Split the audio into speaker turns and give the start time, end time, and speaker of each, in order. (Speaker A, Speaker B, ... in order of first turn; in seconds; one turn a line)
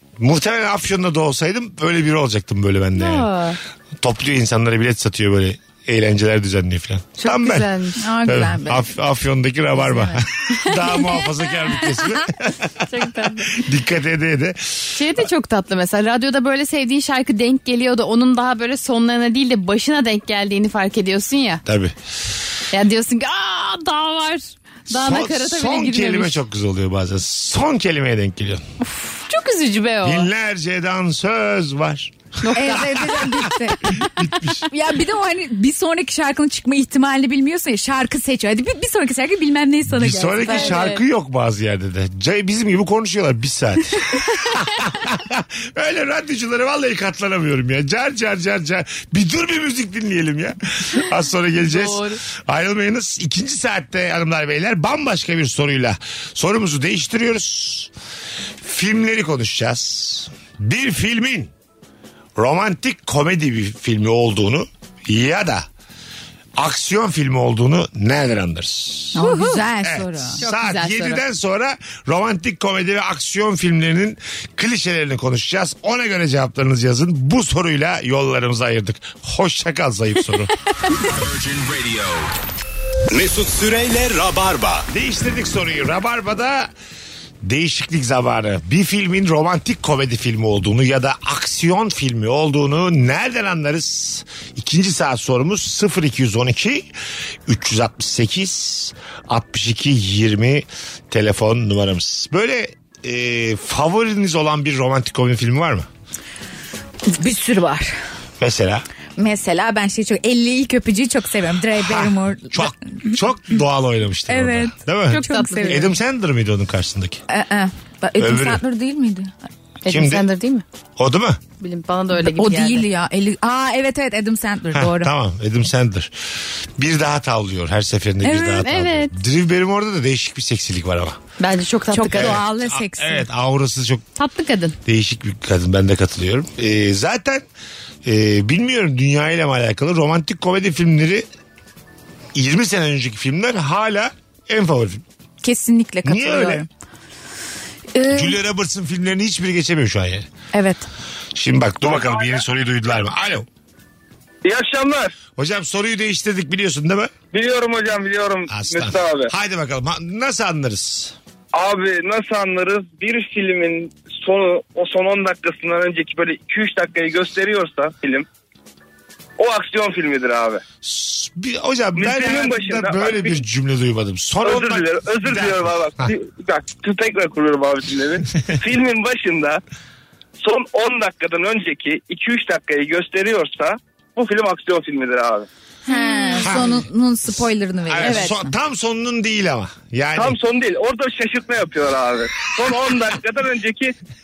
Speaker A: 0.2-3.3
Speaker B: 2.9-3.6
Speaker A: 4.0-7.7
Speaker B: 7.2-8.1
Speaker C: 8.0-8.8
Speaker A: 8.2-15.0
Speaker B: 10.1-11.0
Speaker B: 12.9-13.6
Speaker B: 14.9-21.6
Speaker A: 21.6-21.9
Speaker B: 22.7-26.4
Speaker A: 24.9-28.6
Speaker B: 28.8-30.3
Speaker A: 30.0-34.6
Speaker B: 32.4-33.1
Speaker C: 32.5-33.9
Speaker C: 34.7-40.9
Speaker A: 39.9-57.9
Speaker B: 40.5-41.0
Speaker B: 51.6-52.2
Speaker A: 58.6-61.5
Speaker A: 62.4-65.7
Speaker A: 66.6-69.2
Speaker C: 69.1-70.4
Speaker B: 69.2-69.6
Speaker A: 69.8-80.5
Speaker B: 70.4-71.2
Speaker D: 81.3-82.3
Speaker D: 83.1-84.8
Speaker A: 84.9-86.7
Speaker A: 87.4-96.9
Speaker A: 97.5-105.9
Speaker C: 107.1-108.0
Speaker A: 108.4-108.8
Speaker C: 109.2-113.1
Speaker A: 111.8-117.2
Speaker C: 114.3-115.8
Speaker B: 115.1-115.9
Speaker C: 117.3-119.3
Speaker A: 118.2-118.6
Speaker B: 119.8-120.6
Speaker A: 119.9-120.3
Speaker A: 121.0-121.4
Speaker B: 121.6-122.8
Speaker C: 122.1-125.1
Speaker A: 124.7-126.1
Speaker A: 126.8-131.2
Speaker B: 128.2-129.1
Speaker B: 131.4-132.4
Speaker C: 131.9-133.2
Speaker A: 132.1-134.0
Speaker B: 134.2-134.8
Speaker A: 134.8-137.4
Speaker A: 138.0-141.2
Speaker A: 142.3-145.0
Speaker C: 145.4-146.7
Speaker A: 146.0-146.6
Speaker C: 147.9-148.4
Speaker A: 148.1-150.3
Speaker C: 150.5-150.8
Speaker A: 151.3-153.5
Speaker E: 154.4-155.1
Speaker A: 155.4-157.1
Speaker E: 157.3-159.3
Speaker A: 158.5-161.1
Speaker E: 161.5-168.2
Speaker E: 169.4-170.6
Speaker A: 170.8-176.1
Speaker E: 171.9-173.4
Speaker E: 174.4-179.6
Speaker E: 180.4-185.5
Speaker C: 185.8-188.5
Speaker A: 186.4-186.8
Speaker A: 187.9-190.4
Speaker B: 188.0-188.3
Speaker E: 190.2-193.9